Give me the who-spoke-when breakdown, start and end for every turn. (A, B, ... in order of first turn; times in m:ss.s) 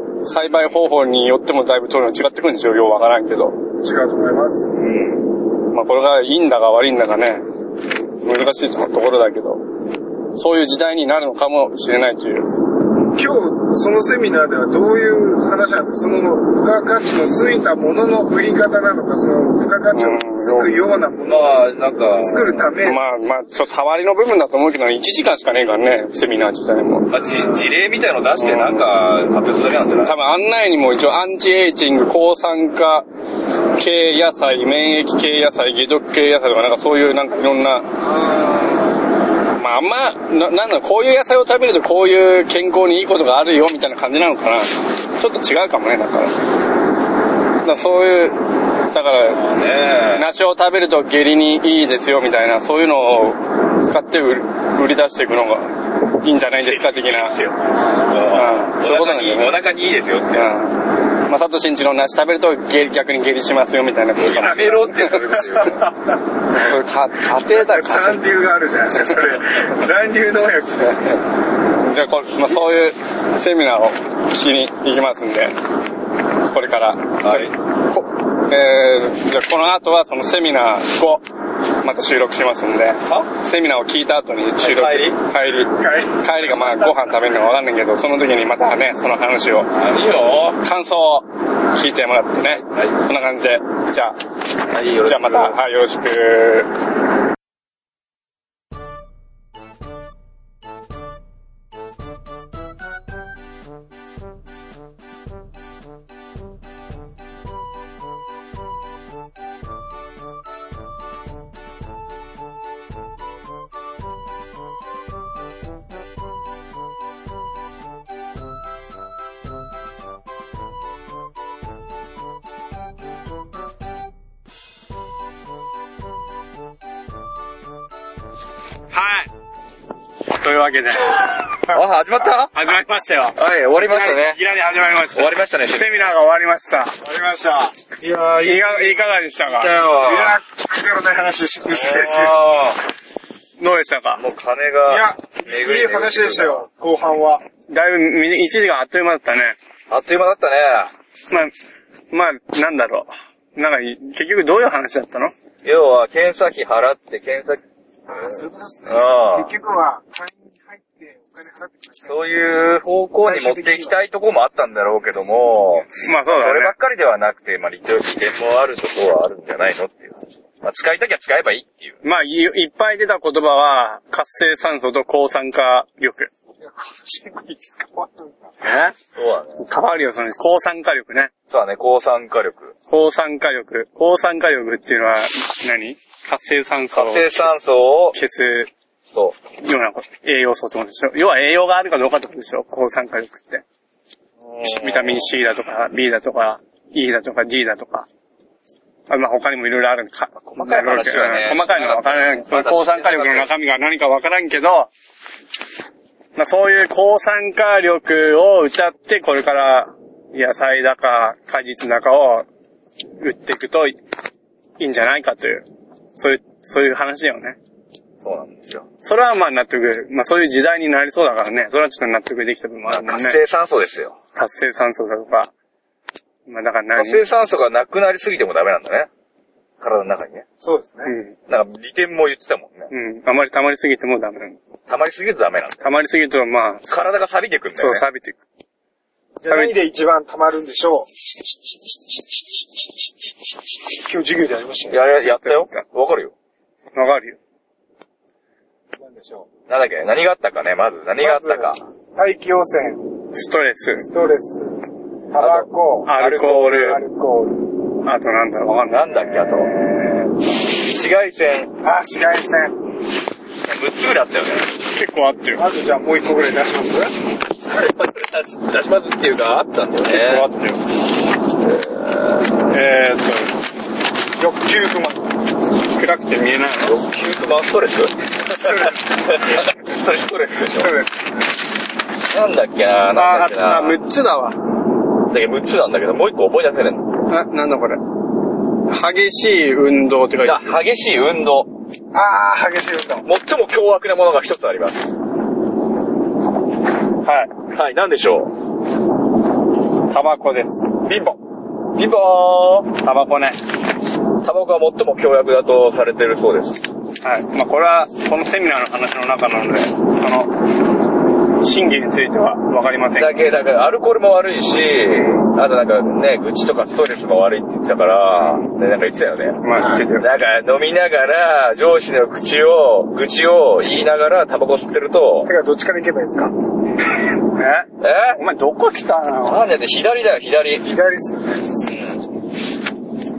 0:00.2-0:03.6 A
0:03.8-0:04.7 B
0:04.8-0:07.4 A
0:08.2-0:09.6 A
0:10.3-0:12.5 A
0:13.1-0:23.0 B
0:19.9-0:20.7 A
0:21.2-0:22.7 C
0:22.8-0:27.2 A
0:27.1-0:30.1 C
0:28.4-0:28.9 A
0:30.0-0:33.0 A
0:33.7-0:37.9 A
0:38.0-0:38.9 B
0:39.5-0:46.3 A
0:47.6-0:49.4 A
0:49.2-0:50.2 C
0:50.1-0:57.4 A
0:56.6-1:00.5 C
0:58.3-0:59.6 A
1:00.3-1:05.2 A
1:04.2-1:05.9 C
1:05.4-1:06.2 B
1:06.5-1:08.2 A
1:07.3-1:11.2 B
1:11.8-1:15.6 A
1:16.4-1:21.2 A
1:17.2-1:17.5 C
1:21.8-1:29.7 A
1:23.0-1:23.3 C
1:24.6-1:25.2 C
1:29.7-1:30.6 C
1:30.6-1:34.2 A
1:32.5-1:33.0 C
1:34.7-1:35.6 C
1:35.0-1:36.7 A
2:08.9-2:09.3 A
2:10.3-2:11.2 A
2:11.7-2:12.5 C
2:12.5-2:17.0 A
2:13.4-2:14.4 C
2:15.1-2:16.1 C
2:17.0-2:22.4 B
2:18.4-2:19.7 A
2:19.4-2:20.4 C
2:21.6-2:22.8 C
2:23.6-2:24.2 A
2:24.2-2:26.6 C
2:24.9-2:27.4 B
2:27.7-2:29.6 A
2:29.9-2:30.9 C
2:32.1-2:35.3 A
2:35.6-2:37.6 C
2:38.1-2:42.2 B
2:38.3-2:39.5 C
2:42.0-2:52.0 C
2:43.2-2:44.0 B
2:46.0-2:46.7 A
2:52.0-2:56.3 A
2:56.6-2:58.5 B
2:58.6-2:58.9 A
2:59.1-2:59.6 C
2:59.6-3:01.3 A
3:01.5-3:02.7 C
3:02.9-3:07.5 A
3:06.9-3:08.2 C
3:08.1-3:08.7 A
3:09.6-3:13.6 A
3:14.4-3:15.3 C
3:14.6-3:18.1 A
3:19.1-3:24.9 A
3:20.5-3:23.5 C
3:26.4-3:32.5 A
3:33.2-3:34.0 A
3:34.8-3:37.6 A
3:38.2-3:38.9 C
3:39.0-3:43.4 A
3:42.8-3:44.2 C
3:44.3-3:45.5 A
3:46.5-3:47.2 A
3:47.0-3:49.1 C
3:49.8-3:50.4 C
3:50.6-3:51.1 B
3:51.0-3:51.3 A
3:51.5-3:52.9 C
3:52.9-3:54.6 A
3:54.9-3:55.8 C
3:55.8-3:56.9 A
3:56.9-3:58.0 C
3:57.8-3:58.4 A
3:59.4-4:01.1 B
3:59.5-3:59.7 A
4:04.0-4:05.0 B
4:04.9-4:06.3 C
4:05.3-4:05.8 A
4:06.9-4:07.4 A
4:09.0-4:09.5 B
4:09.7-4:11.8 C
4:11.2-4:13.1 B
4:13.3-4:14.1 A
4:14.0-4:17.6 B
4:15.4-4:16.9 C
4:16.0-4:17.0 A
4:18.0-4:19.7 A
4:18.9-4:21.7 C
4:21.8-4:22.8 B
4:23.6-4:24.7 C
4:24.9-4:25.6 A
4:25.6-4:27.1 B
4:27.6-4:30.5 C
4:30.0-4:30.8 A
4:31.5-4:32.7 C
4:32.7-4:33.6 A
4:34.4-4:35.2 B
4:35.9-4:37.0 A
4:36.8-4:40.9 C
4:38.5-4:39.6 B
4:40.7-4:41.1 B
4:42.3-4:44.0 C
4:43.1-4:44.6 A
4:45.3-4:47.1 C
4:47.3-4:48.0 A
4:48.9-4:50.7 A
4:50.4-4:51.7 C
4:52.1-4:53.3 B
4:53.2-4:55.1 C
4:57.2-4:57.5 A
4:57.7-4:58.5 C
5:00.1-5:00.8 A
5:01.1-5:01.4 B
5:01.9-5:03.0 C
5:03.0-5:03.6 A
5:04.4-5:06.8 C
5:07.2-5:10.6 A
5:11.6-5:13.5 A
5:13.2-5:25.5 C
5:19.6-5:20.3 A
5:25.4-5:26.5 B
5:27.5-5:29.6 A
5:28.0-5:28.4 C
5:29.4-5:30.8 C
5:30.8-5:31.8 B
5:31.8-5:32.2 C